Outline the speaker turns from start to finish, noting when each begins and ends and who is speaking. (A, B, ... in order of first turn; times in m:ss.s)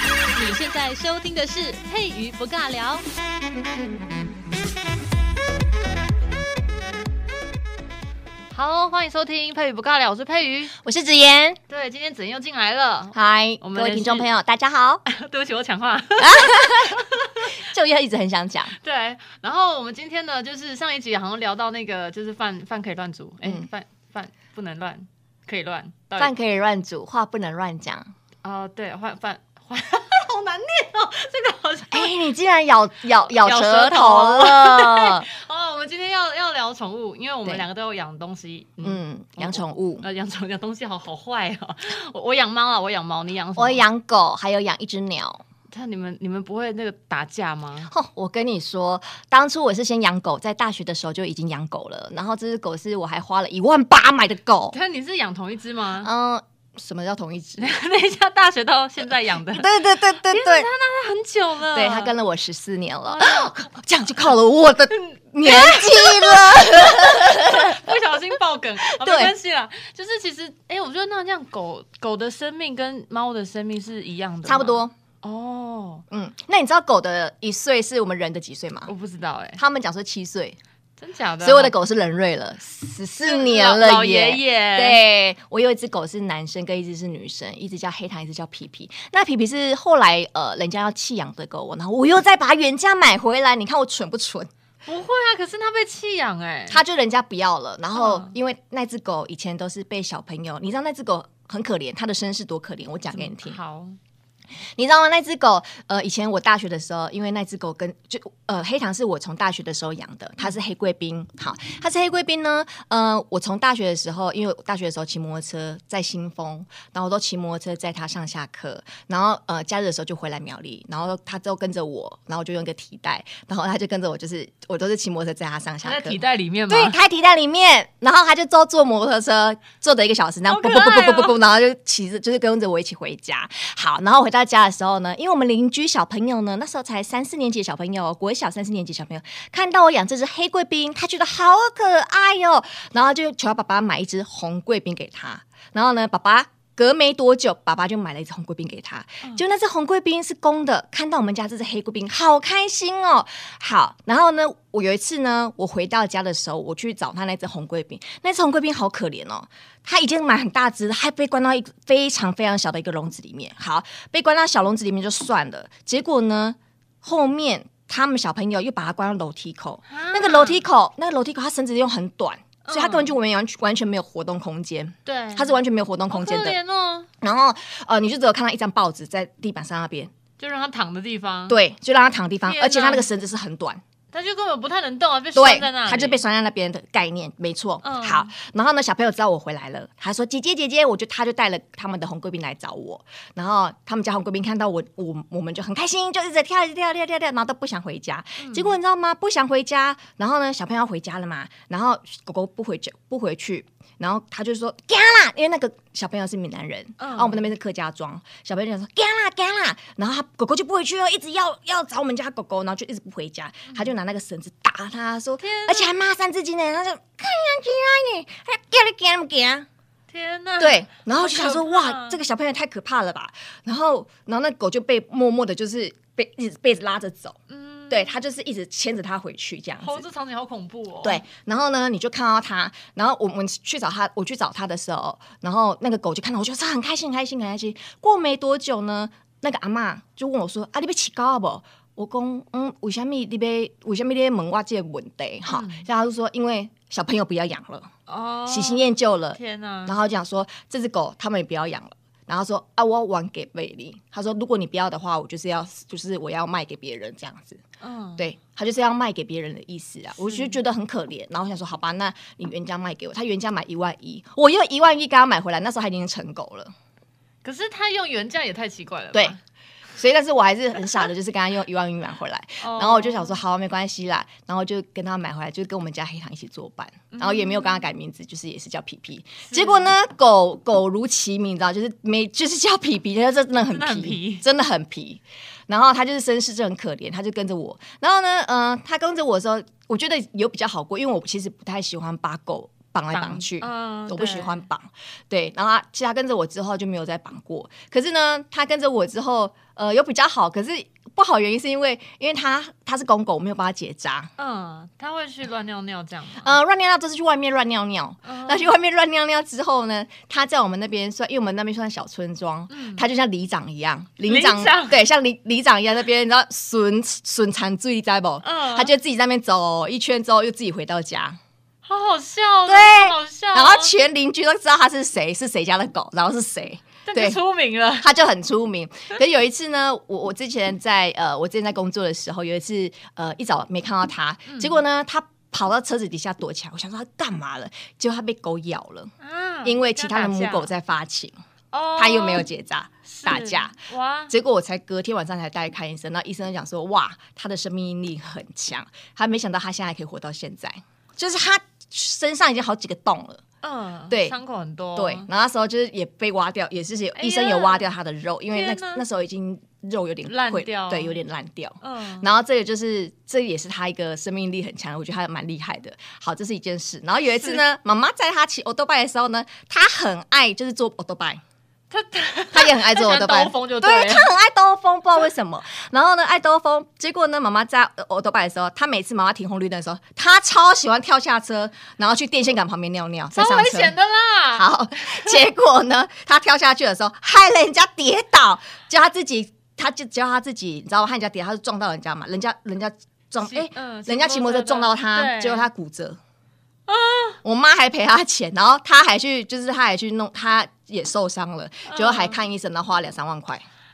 0:00.3-0:03.0 A
0:08.5-0:10.7 A
0:10.8-0:11.6 B
0:11.7-0:14.3 A
0:13.1-0:15.0 B
0:15.0-0:17.5 A
0:16.2-0:18.8 B
0:18.7-0:26.3 A
0:23.4-0:23.7 B
0:26.2-0:28.1 B
0:28.4-0:32.1 A
0:31.9-0:35.2 B
0:33.3-0:43.8 A
0:38.8-0:40.0 B
0:43.6-0:45.4 B
0:45.7-0:47.9 A
0:47.8-0:54.8 B
0:54.7-0:56.1 A
0:56.0-0:57.7 B
0:57.6-1:02.1 A
0:59.5-1:00.7 B
1:01.7-1:07.8 B
1:03.1-1:03.7 A
1:04.9-1:16.0 A
1:08.8-1:09.3 B
1:14.4-1:14.9 B
1:16.1-1:18.9 B
1:18.8-1:19.6 A
1:19.6-1:20.6 B
1:21.0-1:21.7 A
1:21.4-1:34.5 B
1:23.2-1:25.0 A
1:34.8-1:36.8 A
1:36.7-1:43.6 B
1:37.9-1:38.3 A
1:43.1-1:44.0 A
1:44.8-2:56.6 B
2:05.8-2:07.0 A
2:10.5-2:11.4 A
2:49.9-2:50.6 A
2:52.6-2:53.1 A
2:55.0-2:55.6 A
2:56.1-2:57.1 A
2:57.2-3:00.1 B
3:00.4-3:01.6 A
3:01.5-3:03.8 B
3:02.4-3:03.1 A
3:04.1-3:06.2 A
3:05.3-3:39.6 B
3:07.8-3:08.3 A
3:18.4-3:18.8 A
3:27.0-3:27.4 A
3:35.4-3:35.9 A
3:40.1-3:42.2 A
3:40.6-3:47.4 B
3:47.5-3:48.2 A
3:47.9-3:50.0 B
3:49.8-3:51.2 A
3:51.0-4:07.9 B
4:05.5-4:05.9 A
4:08.1-4:10.0 A
4:08.5-4:17.6 B
4:17.8-4:18.3 A
4:18.2-4:26.7 B
4:20.2-4:20.6 A
4:27.4-4:29.4 A
4:30.0-5:04.3 B
4:32.6-4:33.4 A
4:37.1-4:37.8 A
4:39.4-4:39.9 A
4:43.6-4:44.4 A
4:53.1-4:54.6 A
5:04.4-5:06.6 A
5:06.4-5:21.4 B
5:08.2-5:08.7 A
5:12.7-5:13.0 A
5:14.2-5:15.0 A
5:18.4-5:18.9 A
5:21.8-5:23.9 A
5:22.7-5:27.4 B
5:27.0-5:28.1 A
5:28.0-5:39.1 B
5:34.5-5:34.8 A
5:39.2-5:40.7 A
5:39.6-5:41.3 B
5:41.7-5:42.5 A
5:42.0-5:43.7 B
5:43.0-5:44.3 A
5:44.3-5:53.4 B
5:53.6-5:55.3 A
5:54.1-5:54.4 B
5:55.0-6:11.4 B
5:57.2-5:57.9 A
5:58.5-5:59.0 A
6:00.2-6:01.2 A
6:01.8-6:02.2 A
6:07.2-6:07.6 A
6:11.9-6:14.3 A
6:12.5-6:23.9 B
6:23.3-6:25.4 A
6:24.5-6:36.2 B
6:33.4-6:35.7 A
6:36.9-6:37.4 A
6:37.4-6:43.6 B
6:41.9-6:42.4 A